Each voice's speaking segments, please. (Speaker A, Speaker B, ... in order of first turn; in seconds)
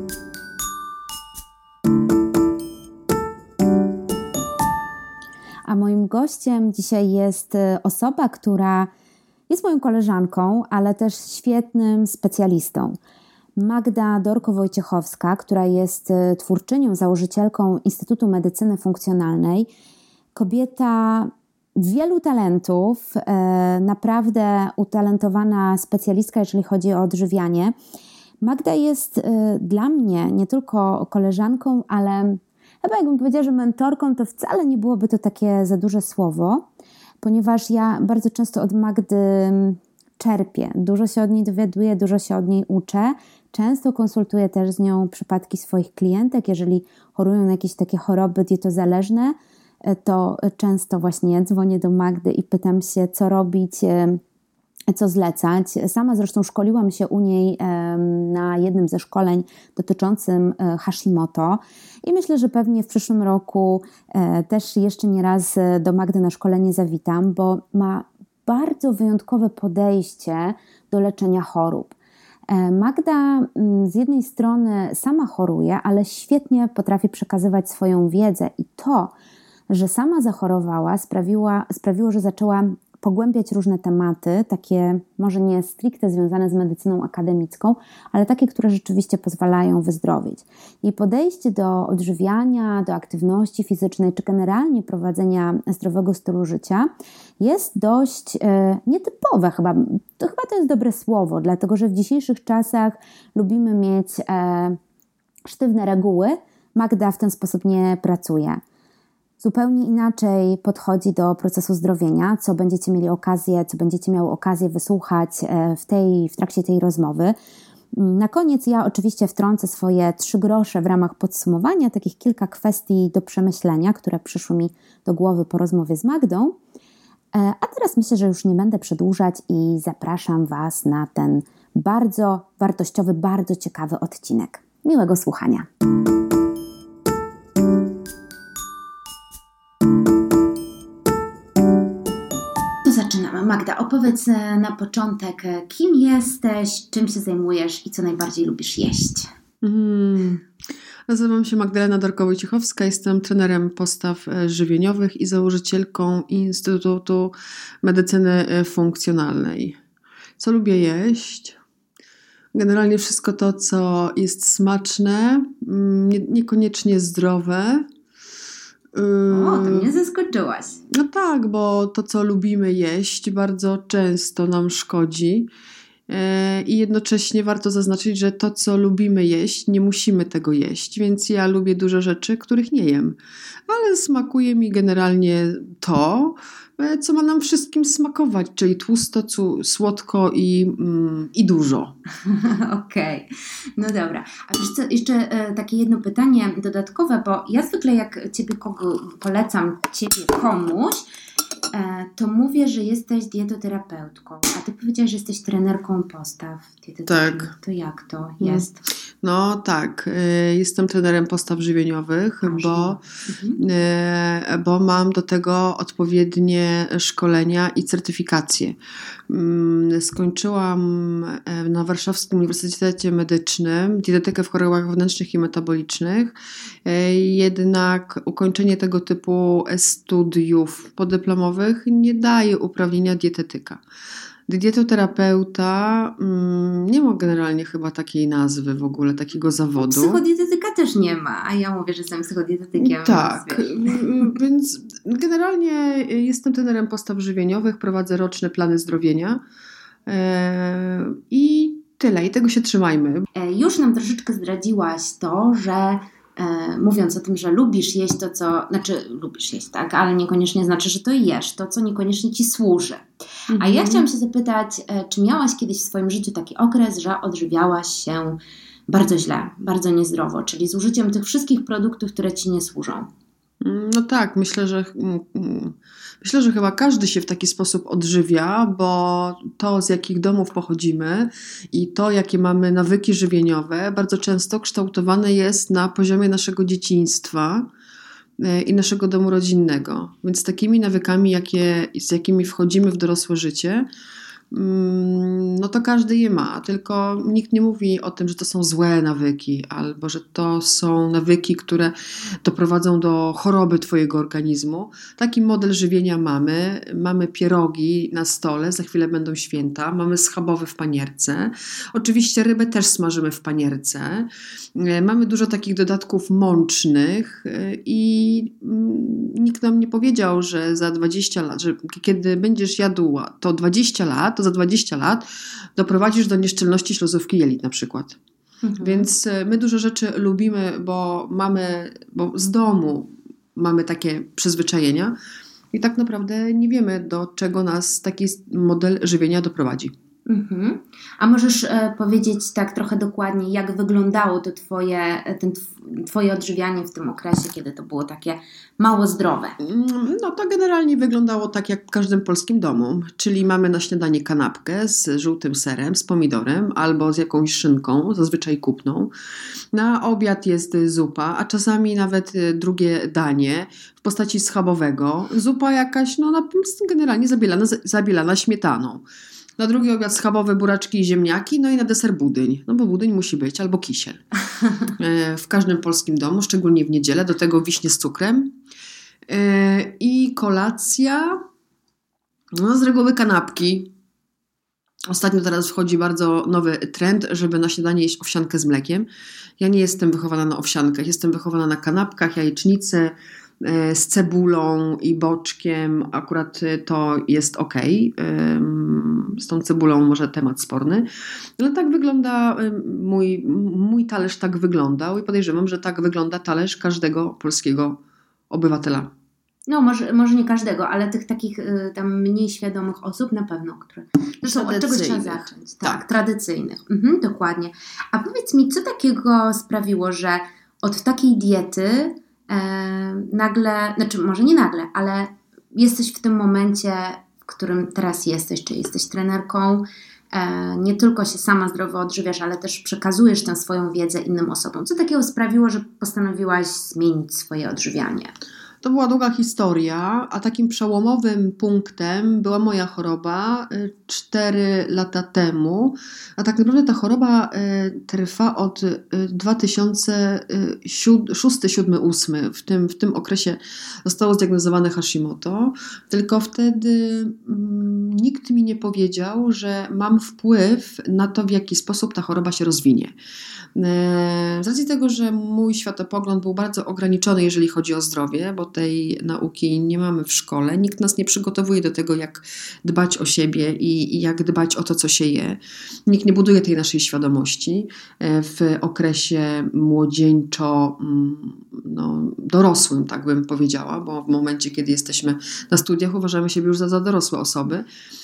Speaker A: 5.7-8.9, 9.5-13.0, 13.6-19.7, 20.3-27.7, 28.4-36.6, 37.2-54.2, 54.9-71.9, 72.5-79.1, 79.7-104.8, 105.5-108.6, 109.4-117.3, 117.9-126.5, 127.3-135.7, 142.8-149.3, 169.3-170.8, 192.2-201.0, 201.7-208.9, 212.4-213.6, 239.8-244.3, 253.3-263.1, 263.6-273.1, 328.6-329.1, 340.2-349.6, 409.7-438.3
Speaker B: 149.6-150.4, 151.1-159.8, 160.4-161.6, 162.5-167.9, 168.9-169.9, 170.9-175.5, 176.1-191.9, 207.1-207.5, 208.4-208.7, 209.2-213.0, 213.6-218.8, 219.3-233.8, 234.5-240.2, 242.8-249.4, 250.1-253.2, 263.5-264.1, 273.6-287.7, 288.4-293.9, 294.5-325.2, 325.8-328.2, 328.8-335.1, 335.7-339.9, 349.6-359.1, 359.7-369.0, 369.6-374.2, 374.9-378.6, 379.3-381.4, 382.5-383.9, 385.1-389.1, 389.6-401.1, 401.6-408.0, 408.5-409.1, 414.4-416.1, 438.8-463.1, 463.7-487.9